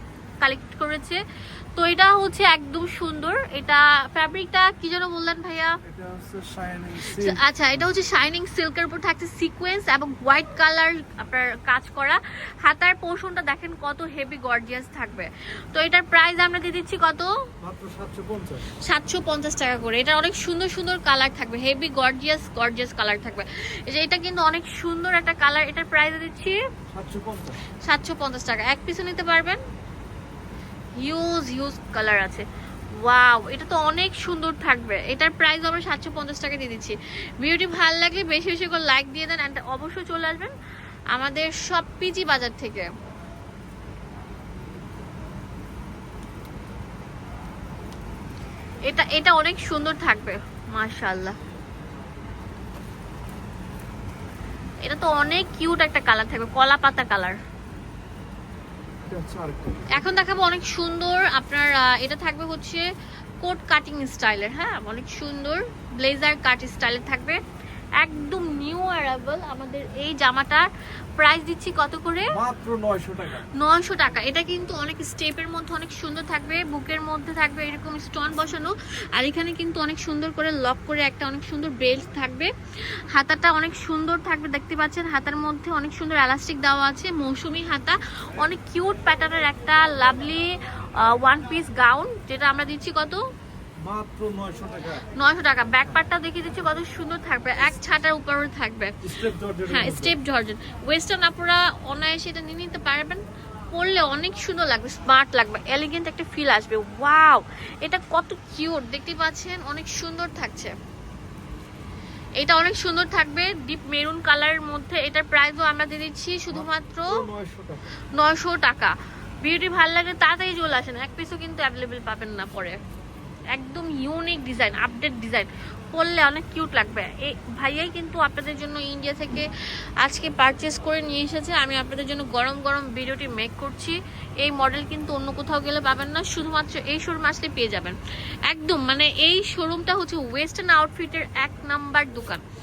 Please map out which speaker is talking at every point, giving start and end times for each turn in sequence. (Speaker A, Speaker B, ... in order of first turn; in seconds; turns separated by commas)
Speaker A: 0.4-1.2, Speaker A: 1.8-5.8, Speaker B: 5.8-7.4, Speaker A: 7.1-17.3, Speaker B: 17.6-18.7, Speaker A: 18.8-26.6, Speaker B: 26.9-27.6, Speaker A: 27.8-29.6, Speaker A: 31.0-40.5, Speaker A: 41.1-42.9, Speaker A: 48.9-51.4, Speaker A: 54.8-57.4, Speaker B: 59.1-60.0, Speaker A: 59.9-62.9, Speaker A: 63.4-67.4, Speaker A: 68.0-72.3, Speaker B: 72.3-73.5, Speaker A: 73.5-82.5, Speaker A: 83.1-93.2, Speaker B: 93.8-95.1, Speaker A: 95.1-99.0, Speaker B: 99.0-100.2, Speaker A: 99.7-110.7, Speaker A: 112.4-117.2, Speaker B: 116.5-118.0, Speaker A: 118.1-122.8, Speaker A: 123.5-129.5, Speaker A: 130.0-142.4